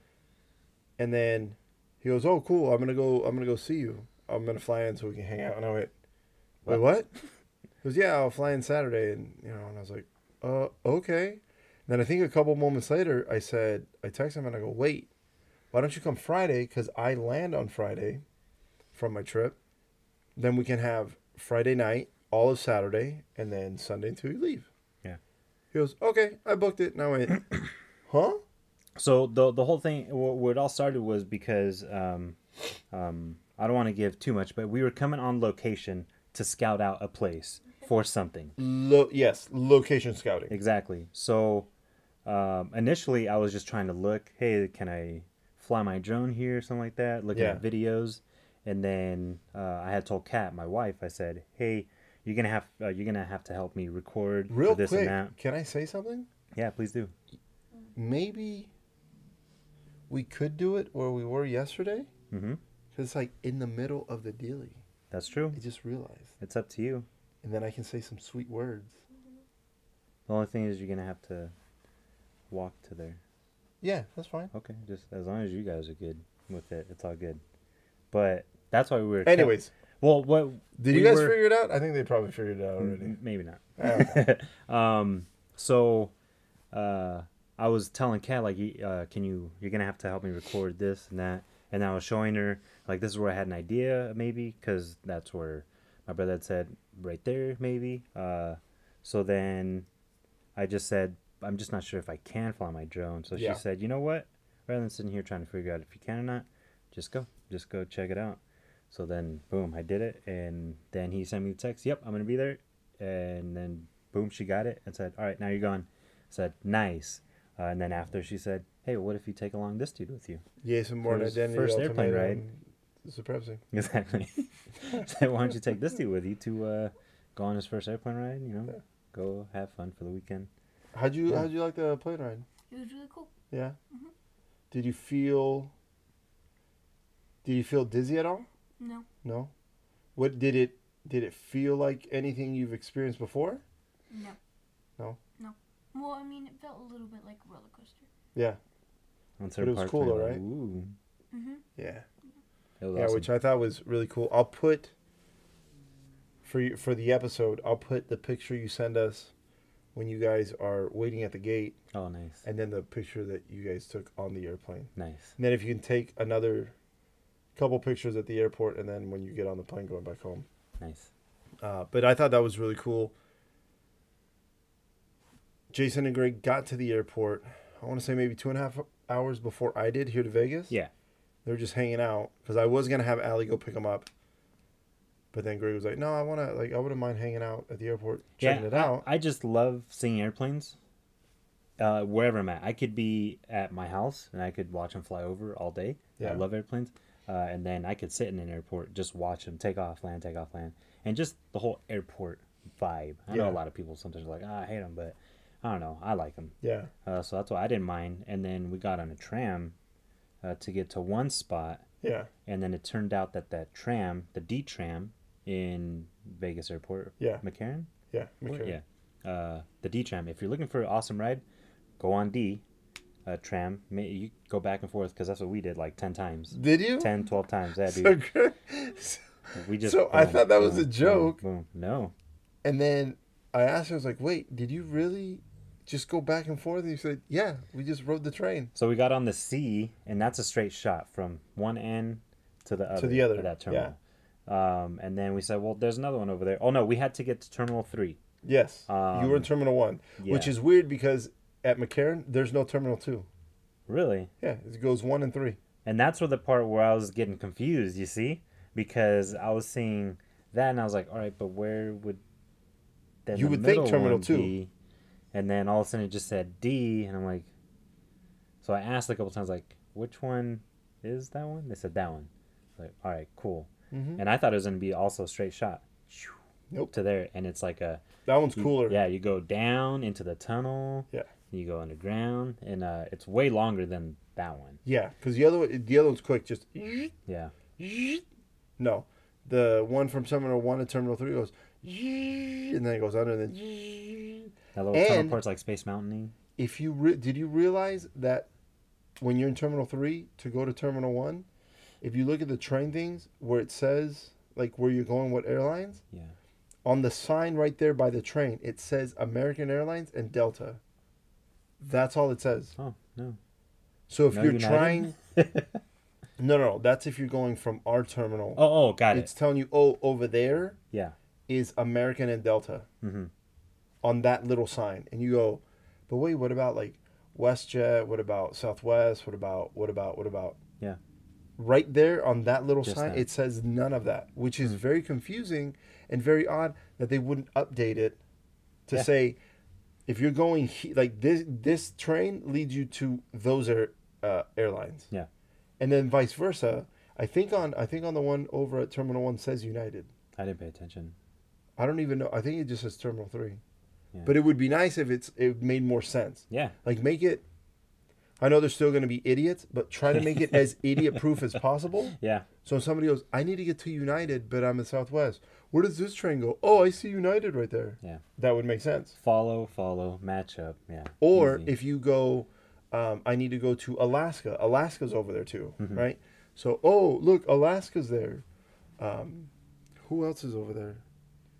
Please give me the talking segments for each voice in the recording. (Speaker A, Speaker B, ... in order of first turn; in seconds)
Speaker A: 1.0-5.9, 6.7-7.1, 7.8-15.1, 15.7-18.2, 18.9-19.6, 20.4-24.7, 25.7-27.5, 28.1-28.4, 38.6-40.5, 47.3-47.6, 54.5-56.3, 58.0-58.7, 60.1-62.1, 62.9-64.8, 65.5-66.3, 67.4-69.0, 73.8-74.5, 79.2-79.7, 80.8-83.2, 83.8-84.2, 103.3-103.6, 120.6-123.6, 130.9-132.4, 133.5-133.8, 134.7-135.7, 137.4-138.5, 139.2-139.5, 140.2-143.6, 149.6-150.4, 151.8-152.0, 152.9-154.9, 156.4-159.3, 159.9-161.8, 162.4-166.7, 167.6-170.4, 171.6-173.1, 175.7-180.7, 181.4-184.1, 185.3-189.1, 196.2-196.4, 203.3-203.6, 206.6-206.9, 212.0-212.3, 218.1-218.7, 226.5-227.1, 227.9-229.2, 229.8-231.4, 232.6-238.7, 242.9-243.9, 248.4-253.3, 254.4-255.6, 263.3-264.5, 273.9-274.2, 278.2-279.0, 284.8-287.1, 287.8-288.2, 288.8-295.4, 296.6-298.5, 299.2-301.4, 302.0-306.0, 306.8-310.8, 311.8-312.8, 314.1-315.1, 316.4-320.8, 321.5-322.9, 324.0-330.6, 331.6-338.2, 338.9-339.4, 340.1-345.1, 345.8-350.1, 351.8-353.6, 354.2-357.4, 358.4-369.1, 371.2-378.4, 379.0-381.0
Speaker B: 28.9-32.4, 32.9-38.5, 40.5-41.7, 42.2-55.3, 56.5-57.1, 62.3-62.6, 65.1-65.6, 66.4-67.1, 70.3-71.5, 72.5-73.2, 74.5-77.4, 78.1-81.4, 82.8-86.1, 86.7-99.9, 100.5-120.4, 121.0-122.4, 123.7-130.5, 149.4-150.9, 152.8-153.3, 161.9-162.4, 164.9-165.3, 170.8-171.1, 188.4-190.8, 191.8-209.7, 210.4-211.8, 212.4-217.9, 218.5-221.4, 222.0-222.6, 223.2-228.2, 229.5-232.1, 238.7-248.2, 248.9-249.5, 250.2-250.5, 253.9-254.3, 255.8-262.2, 263.2-264.7, 265.3-267.5, 268.6-276.4, 276.9-284.8, 287.3-287.5, 294.7-296.3, 312.8-313.4, 314.3-315.8, 318.6-319.3, 323.0-323.3, 332.8-333.2, 350.4-351.1, 356.5-356.8, 362.2-362.5, 369.2-371.7, 375.8-376.0
Speaker C: 132.7-133.3, 138.8-139.1, 144.1-144.4, 145.4-148.1, 151.3-151.6